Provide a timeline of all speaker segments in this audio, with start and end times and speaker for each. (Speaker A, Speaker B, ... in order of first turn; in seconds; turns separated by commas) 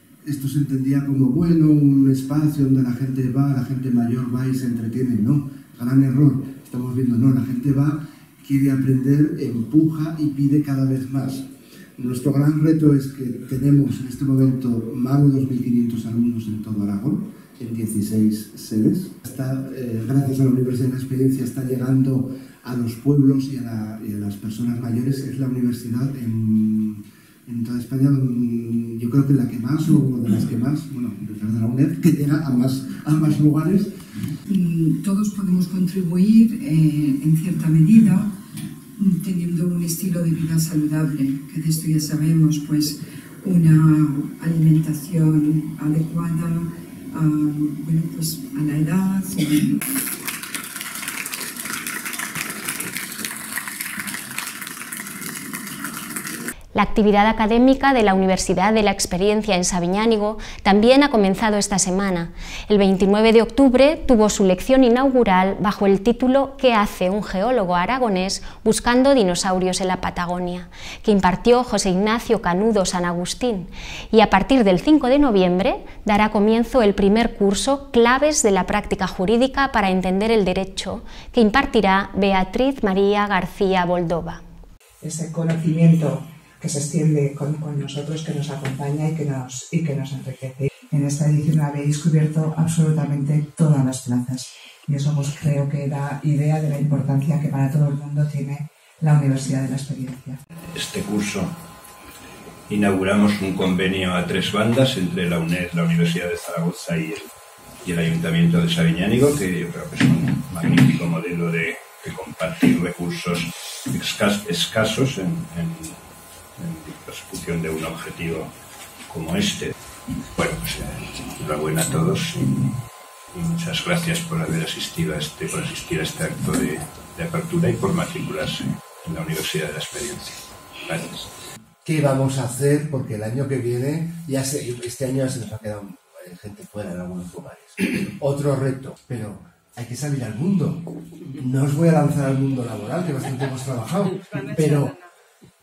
Speaker A: 0.2-33.9, Speaker B: 34.5-38.3, Speaker B: 39.0-49.8, Speaker C: 56.7-84.4, Speaker D: 85.0-100.4, Speaker E: 100.7-101.5, Speaker E: 102.7-107.3, Speaker E: 107.8-116.0, Speaker E: 116.6-118.5, Speaker E: 119.1-119.7, Speaker E: 120.3-122.8, Speaker E: 123.3-131.3, Speaker A: 131.8-145.0